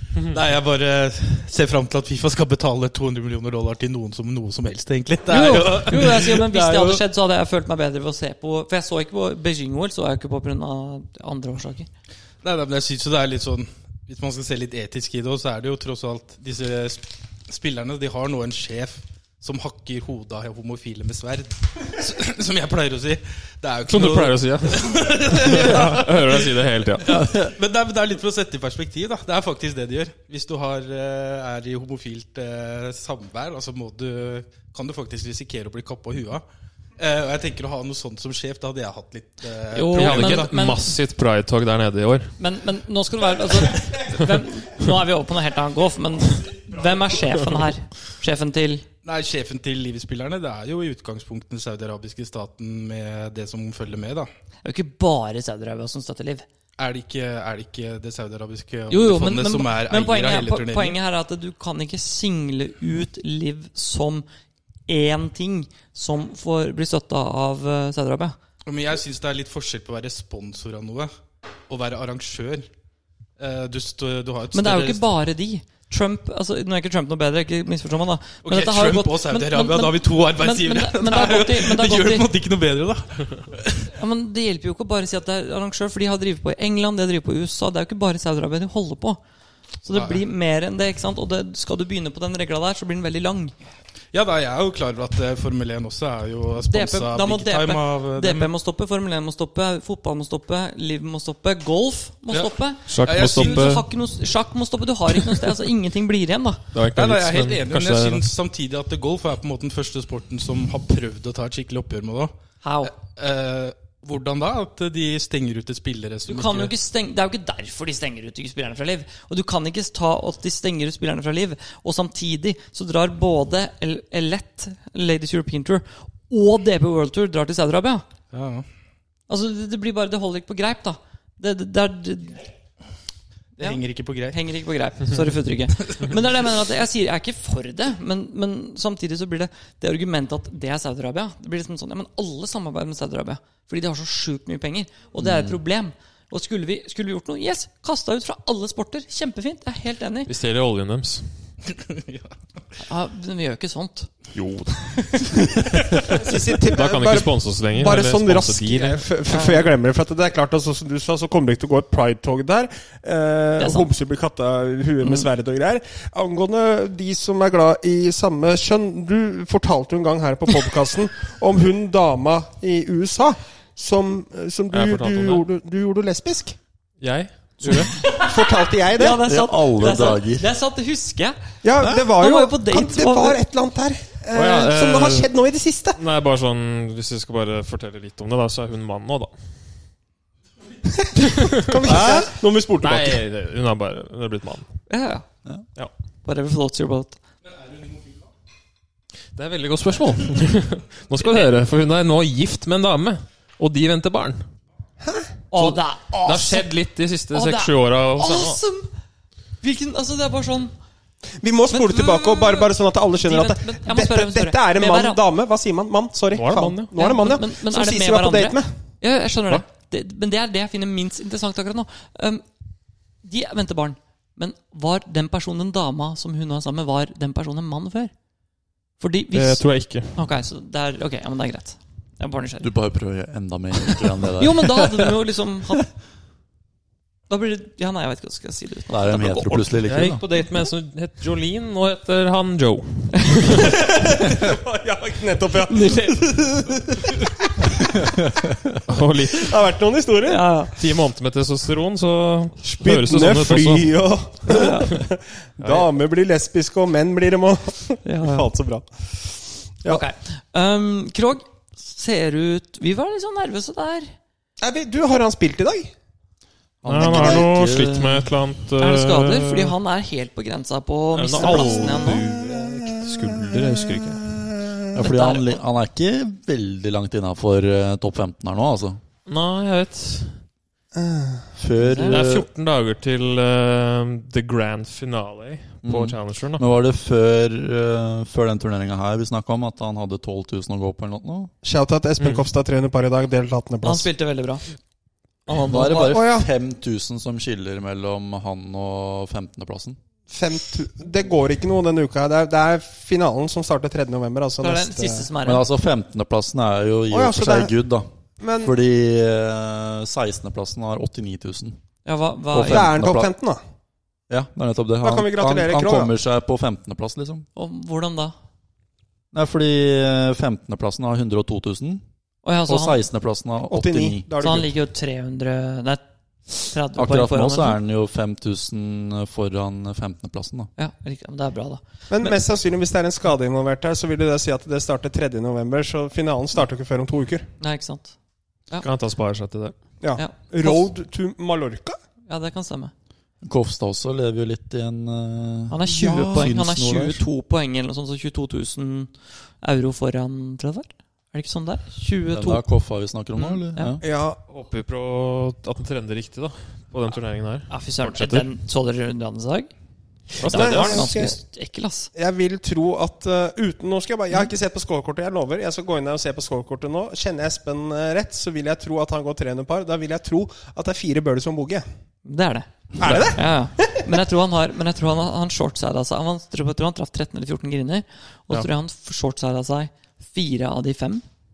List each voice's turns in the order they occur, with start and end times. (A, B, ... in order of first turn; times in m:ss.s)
0:00.3-0:07.0 A
0:05.3-0:11.9 B
0:12.4-0:36.4 A
0:23.9-0:27.2 C
0:27.1-0:27.5 D
0:37.0-0:40.5 A
0:39.7-0:40.9 B
0:39.9-0:42.4 C
0:42.4-0:48.9 B
0:49.0-0:54.3 A
0:54.6-0:56.4 B
0:56.8-1:01.0 A
0:58.9-1:04.2 B
1:04.9-1:08.4 B
1:08.6-1:11.1 A
1:11.7-1:12.7 A
1:13.4-1:15.0 A
1:14.5-1:22.3 B
1:18.4-1:23.9 A
1:23.9-1:29.2 B
1:29.8-1:33.5 B
1:29.9-1:30.2 A
1:34.1-1:38.5 A
1:36.7-1:46.6 B
1:42.3-1:43.8 A
1:42.9-1:43.9 C
1:46.7-1:48.2 C
1:46.9-1:52.3 A
1:52.6-1:52.9 B
1:52.8-1:56.7 A
1:56.3-2:08.0 B
2:08.3-2:08.7 A
2:09.3-2:12.4 B
2:13.6-2:14.4 A
2:13.6-2:30.3 B
2:25.2-2:25.6 D
2:30.3-2:31.3 C
2:31.7-2:32.3 A
2:32.8-2:34.1 B
2:34.3-2:39.0 C
2:34.9-2:35.6 B
2:36.1-2:56.6 E
2:39.3-2:39.7 B
2:43.6-2:43.9 B
2:45.0-2:45.3 B
2:54.7-2:55.4 C
2:57.0-2:58.0 C
2:57.8-3:03.4 B
2:58.0-2:59.2 E
2:59.2-3:00.4 D
3:01.6-3:06.0 E
3:04.3-3:05.3 C
3:06.0-3:09.4 C
3:10.9-3:13.2 E
3:11.2-3:14.7 C
3:14.9-3:15.2 B
3:16.2-3:17.2 B
3:17.6-3:18.1 A
3:19.4-3:24.5 C
3:25.0-3:25.3 E
3:25.5-3:26.7 B
3:25.5-3:28.6 C
3:27.3-3:28.9 B
3:29.6-3:30.7 B
3:31.4-3:38.8 E
3:31.7-3:35.2 B
3:36.3-3:36.9 C
3:37.0-3:42.4 B
3:43.2-3:48.1 B
3:49.0-3:52.7 B
3:49.3-3:50.2 C
3:52.6-3:55.2 D
3:54.4-3:55.8 B
3:57.3-3:59.8 B
3:58.9-4:00.2 D
3:59.8-4:03.8 C
4:03.9-4:08.1 E
4:05.7-4:06.2 B
4:08.9-4:09.6 C
4:09.3-4:10.5 E
4:10.2-4:10.7 B
4:10.7-4:14.0 C
4:12.6-4:20.0 E
4:14.5-4:14.9 B
4:15.6-4:15.9 C
4:18.0-4:18.5 B
4:19.9-4:24.1 B
4:24.6-4:25.9 E
4:26.8-4:28.3 D
4:26.8-4:29.8 C
4:27.0-4:27.4 E
4:28.8-4:32.3 B
4:31.1-4:34.3 C
4:31.4-4:35.0 E
4:34.9-4:39.0 D
4:35.0-4:35.6 B
4:39.2-4:40.4 C
4:40.9-4:41.5 E
4:41.6-4:42.5 D
4:41.8-4:42.2 B
4:42.1-4:46.6 C
4:45.8-4:51.5 D
4:51.6-4:54.1 E
4:52.2-4:52.4 C
4:53.8-4:54.7 B
4:55.5-4:56.2 B
4:55.7-5:00.0 D
4:56.0-4:56.5 E
5:00.3-5:05.3 E
5:04.6-5:05.6 B
5:05.4-5:08.1 D
5:07.1-5:07.7 E
5:08.4-5:08.7 E
5:08.6-5:11.8 D
5:12.0-5:12.9 B
5:12.5-5:13.3 D
5:12.6-5:13.6 E
5:14.3-5:17.4 D
5:15.0-5:16.1 E
5:17.5-5:18.4 B
5:19.3-5:22.0 D
5:22.4-5:23.0 B
5:22.7-5:24.6 D
5:23.7-5:24.7 E
5:24.4-5:27.8 B
5:27.0-5:30.7 D
5:30.8-5:32.4 B
5:32.1-5:37.5 E
5:37.6-5:38.1 B
5:38.8-5:39.8 C
5:40.0-5:42.0 E
5:40.1-5:40.9 B
5:42.3-5:42.9 B
5:43.4-5:47.2 D
5:45.7-5:52.6 B
5:45.9-5:46.5 E
5:52.3-5:54.0 D
5:53.4-5:54.0 B
5:54.0-5:54.4 E
5:54.5-5:58.5 C
5:57.7-5:59.7 B
6:00.4-6:01.1 C
6:00.4-6:02.1 B
6:00.4-6:01.4 E
6:02.1-6:11.8 E
6:12.2-6:21.2 B
6:13.0-6:14.1 E
6:13.0-6:13.4 C